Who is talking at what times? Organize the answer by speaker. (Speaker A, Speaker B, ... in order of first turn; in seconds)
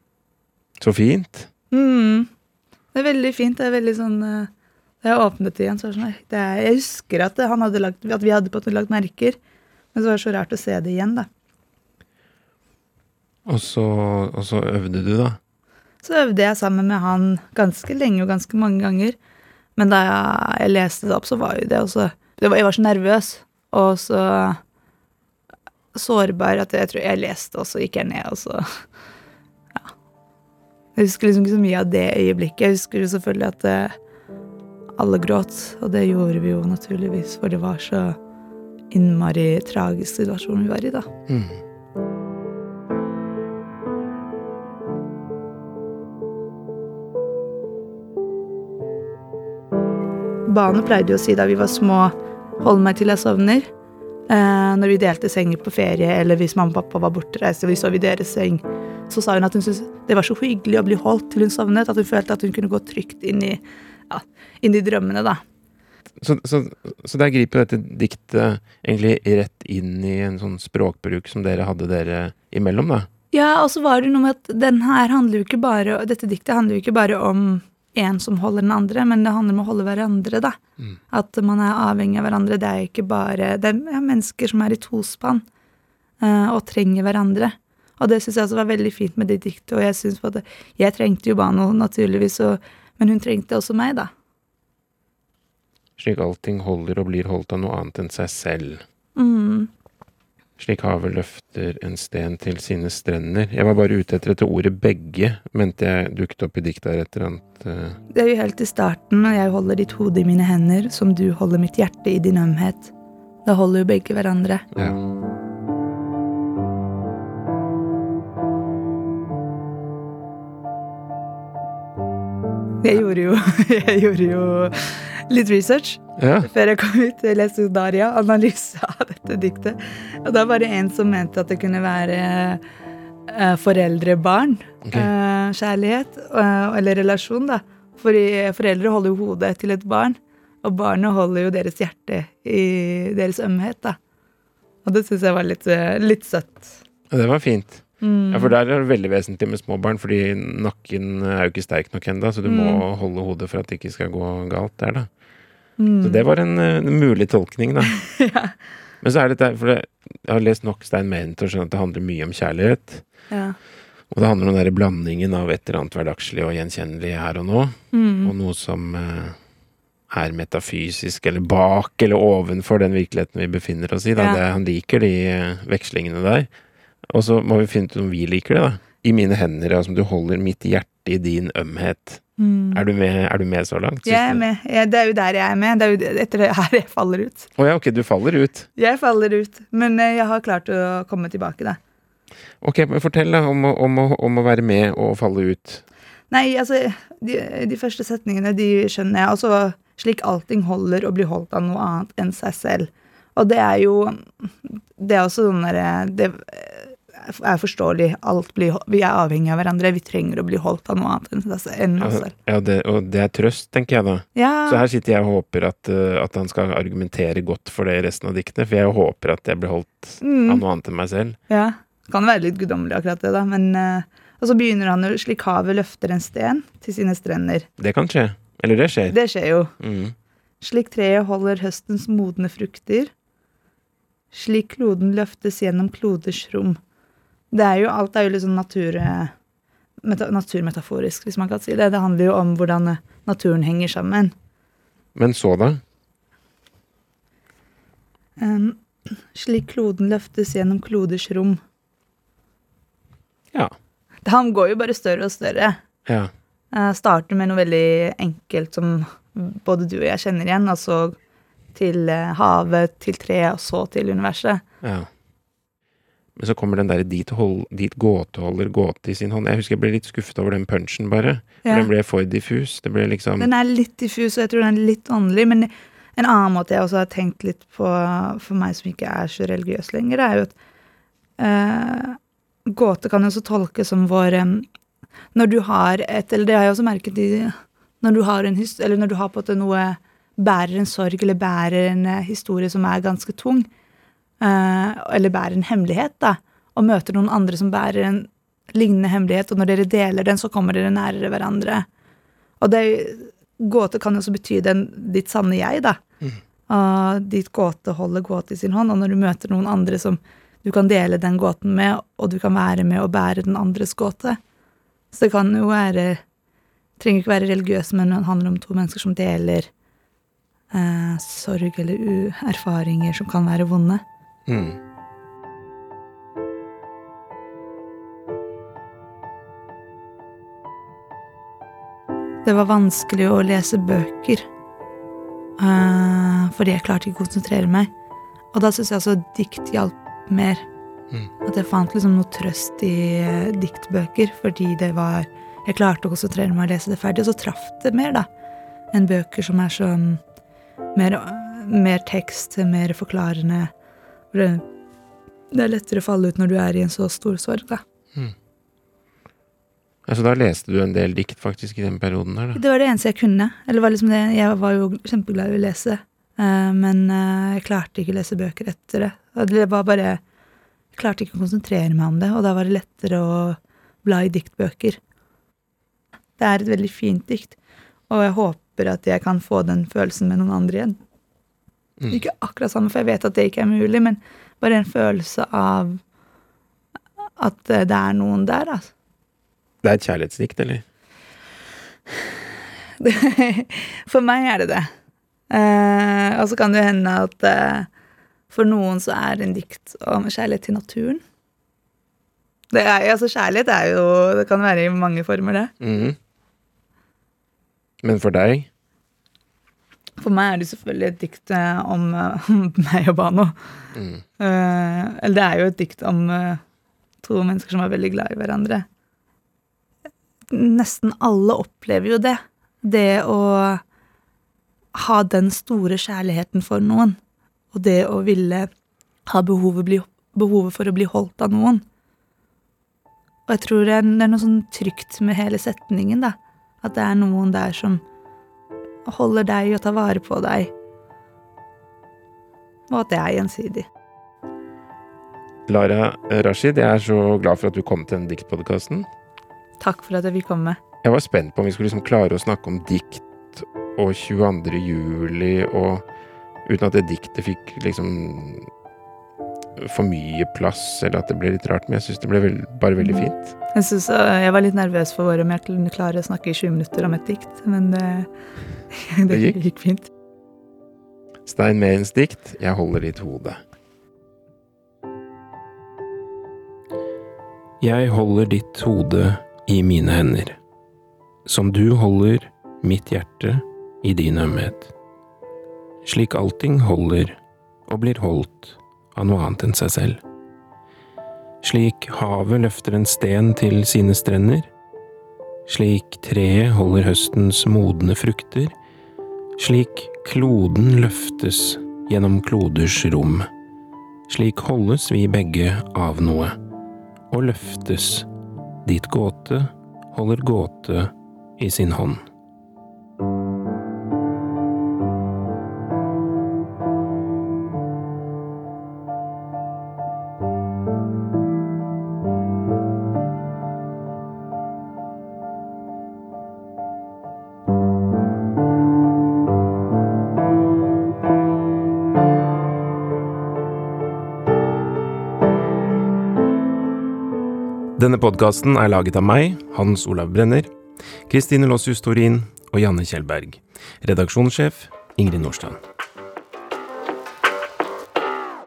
Speaker A: 0.8-1.5, 13.5-15.4, 41.3-41.6, 66.2-73.1, 96.0-98.8, 100.6-108.0, 114.7-115.0, 126.2-126.5, 134.8-135.1, 147.1-155.1, 156.0-158.0, 159.0-163.1, 164.1-169.4, 170.1-176.5, 177.1-184.4, 187.6-188.7, 192.6-195.8, 212.0-221.4, 227.8-229.2, 229.8-230.2, 245.2-245.8, 256.1-256.3, 264.8-265.1, 266.4-273.5, 324.5-324.8, 360.1-362.6, 389.8-390.9, 405.8-406.2, 408.0-408.7, 413.9-414.2, 445.7-449.1, 451.0-456.1, 456.6-458.7, 459.8-463.6, 469.3-469.6, 471.5-473.6, 477.8-480.6, 481.5-484.9, 486.1-490.2, 491.6-494.7, 495.7-498.7, 499.6-503.5, 504.3-506.6, 507.3-508.3, 508.9-512.2, 538.0-540.7, 541.3-545.8
Speaker B: 1.7-2.3, 2.9-4.5, 5.0-9.4, 9.9-11.3, 16.0-19.2, 19.8-24.6, 25.9-28.6, 31.0-33.9, 35.0-38.2, 38.9-41.1, 50.5-53.6, 54.3-65.4, 73.3-80.6, 81.1-85.4, 86.2-94.1, 99.2-99.7, 108.1-112.9, 113.5-114.7, 122.8-132.6, 133.3-144.0, 144.8-146.7, 148.0-148.6, 152.4-152.8, 155.8-156.3, 158.1-158.6, 163.3-163.6, 167.9-168.3, 174.2-174.4, 182.4-182.8, 184.1-187.5, 188.8-191.8, 196.3-212.3, 214.3-214.9, 220.2-220.6, 221.5-227.7, 229.1-229.7, 230.6-233.1, 234.3-236.8, 237.5-239.3, 240.0-244.3, 248.4-251.6, 254.2-255.8, 256.7-261.2, 261.7-264.6, 271.6-271.9, 273.4-280.5, 281.4-284.7, 285.3-293.7, 294.4-301.9, 302.6-306.0, 306.7-314.4, 315.1-316.2, 317.0-319.7, 320.7-324.0, 332.4-334.5, 335.6-337.9, 338.5-340.6, 341.4-348.3, 348.9-350.2, 350.9-353.7, 354.3-354.6, 355.5-357.8, 362.6-370.2, 370.9-375.0, 376.4-377.6, 378.1-381.0, 382.1-386.0, 387.4-388.9, 393.0-394.9, 395.5-397.9, 398.5-401.2, 402.7-405.7, 410.2-413.6, 414.4-416.6, 417.2-418.9, 420.5-423.8, 424.9-427.2, 427.7-428.7, 429.3-431.8, 433.5-438.0, 439.1-440.7, 442.9-443.9, 449.8-450.8, 463.0-468.3, 468.9-470.1